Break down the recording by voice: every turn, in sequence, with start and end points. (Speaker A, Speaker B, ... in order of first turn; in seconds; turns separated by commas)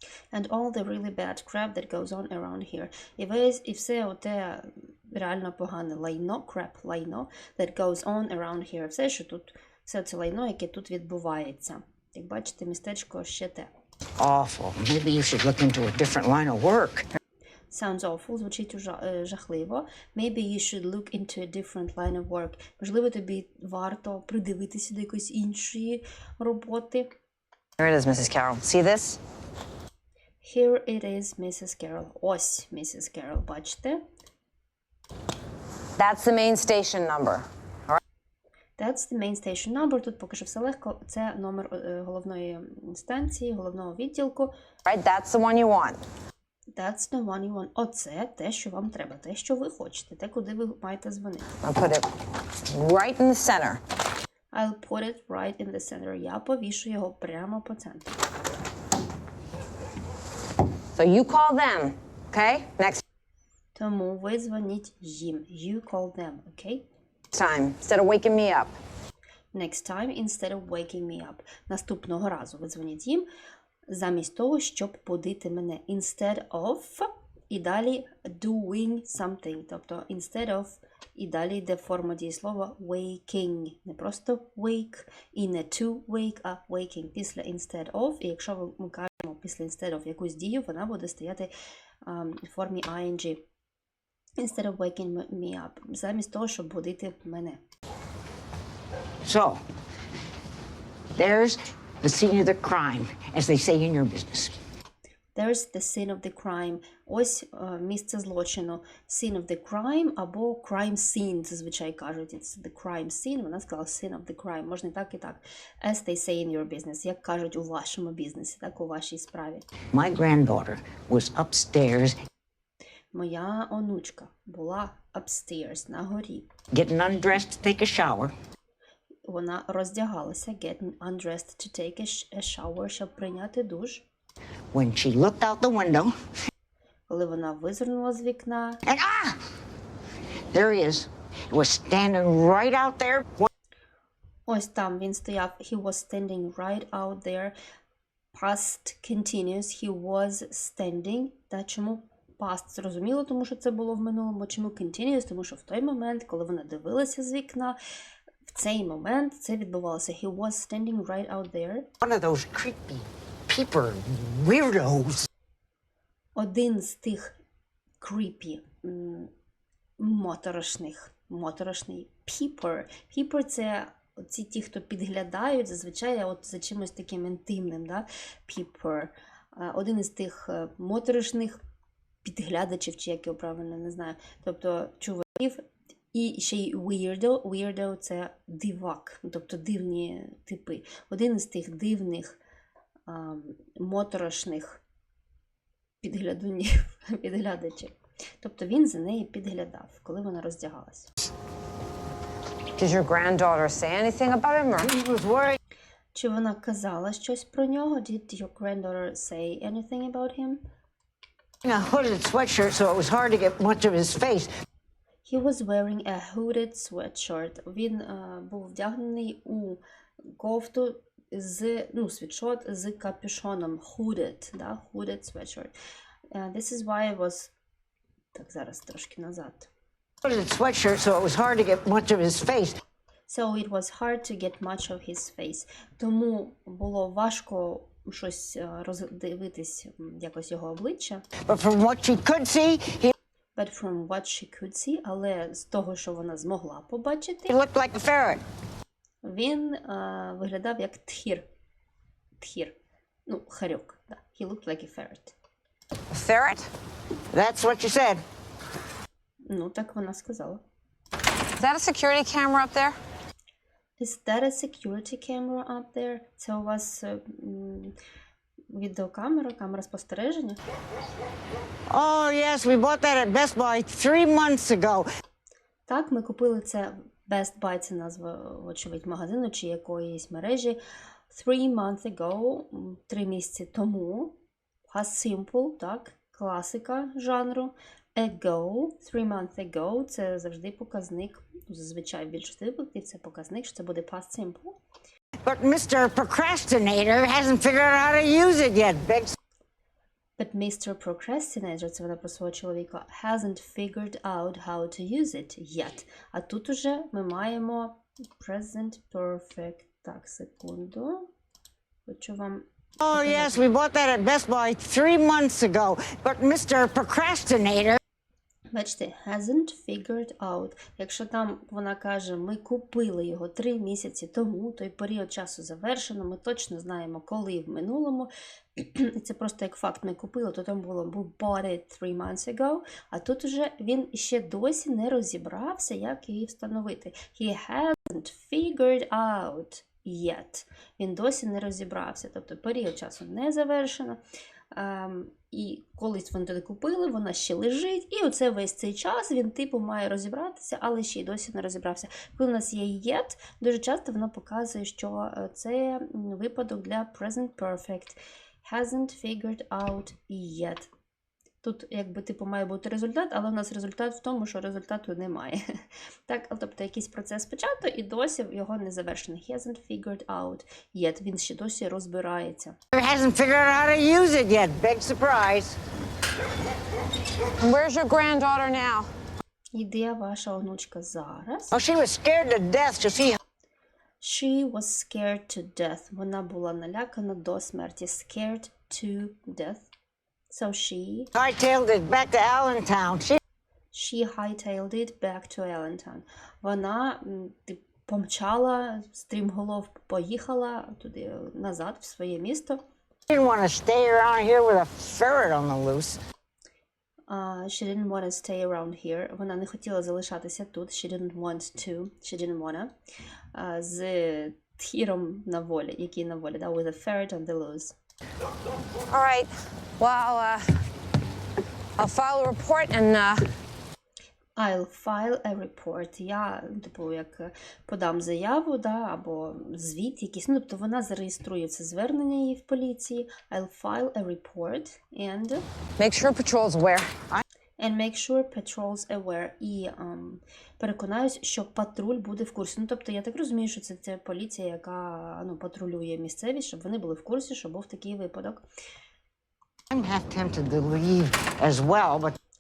Speaker A: 0.3-13.7, Speaker B: 14.2-17.1, Speaker A: 17.7-27.1, Speaker C: 27.8-29.2, Speaker A: 30.4-34.0, Speaker C: 36.0-38.0, Speaker A: 38.8-44.5, Speaker C: 44.9-46.0, Speaker A: 46.7-51.5, Speaker C: 51.6-52.0, Speaker C: 52.7-53.8, Speaker A: 54.5-58.1, Speaker C: 61.0-63.0, Speaker A: 63.7-66.8, Speaker C: 67.3-68.8, Speaker A: 69.5-73.2, Speaker A: 73.9-91.5, Speaker A: 92.0-93.4, Speaker A: 94.4-97.6, Speaker B: 99.2-99.6, Speaker B: 101.2-104.5, Speaker A: 105.3-119.7, Speaker B: 119.9-122.2, Speaker A: 123.1-126.5, Speaker B: 126.7-128.3, Speaker A: 129.3-134.1, Speaker B: 134.7-136.1, Speaker A: 137.1-138.8, Speaker B: 138.8-139.4, Speaker B: 140.5-143.5, Speaker A: 144.5-147.6, Speaker A: 148.3-157.8, Speaker A: 158.5-161.9, Speaker B: 162.0-165.3, Speaker A: 166.3-167.4, Speaker A: 168.0-169.3, Speaker A: 170.0-181.6, Speaker A: 182.2-192.4, Speaker A: 193.1-194.8, Speaker A: 196.0-201.1, Speaker C: 202.8-204.9, Speaker B: 204.8-205.6, Speaker A: 206.1-210.6, Speaker B: 211.6-214.5, Speaker A: 215.2-225.7, Speaker A: 226.3-227.5, Speaker A: 228.3-229.7, Speaker B: 230.2-232.8, Speaker A: 233.3-241.3, Speaker B: 241.4-243.1, Speaker A: 243.6-247.6, Speaker B: 247.5-248.4, Speaker A: 249.2-251.5, Speaker A: 252.4-255.3, Speaker C: 256.1-256.7, Speaker B: 257.3-258.2, Speaker A: 259.4-260.6, Speaker C: 261.6-262.9, Speaker A: 264.0-267.9, Speaker A: 268.7-270.6, Speaker B: 271.9-275.1, Speaker A: 275.9-280.8, Speaker A: 281.3-284.4, Speaker A: 284.9-294.8, Speaker B: 295.4-299.4, Speaker A: 300.4-311.3, Speaker A: 312.1-313.6, Speaker B: 313.0-318.0, Speaker A: 318.7-344.2, Speaker A: 344.7-360.9, Speaker A: 361.6-372.8, Speaker B: 372.9-375.8, Speaker C: 377.6-379.1, Speaker A: 379.7-381.8, Speaker B: 381.7-383.4, Speaker A: 384.2-389.9, Speaker A: 390.5-391.3, Speaker B: 391.3-393.4, Speaker A: 393.9-402.8, Speaker B: 403.3-406.2, Speaker A: 407.3-412.9, Speaker A: 413.5-417.9, Speaker C: 419.1-420.8, Speaker C: 422.0-423.5, Speaker A: 424.6-435.6, Speaker C: 436.0-437.1, Speaker A: 437.8-448.6, Speaker B: 449.9-452.4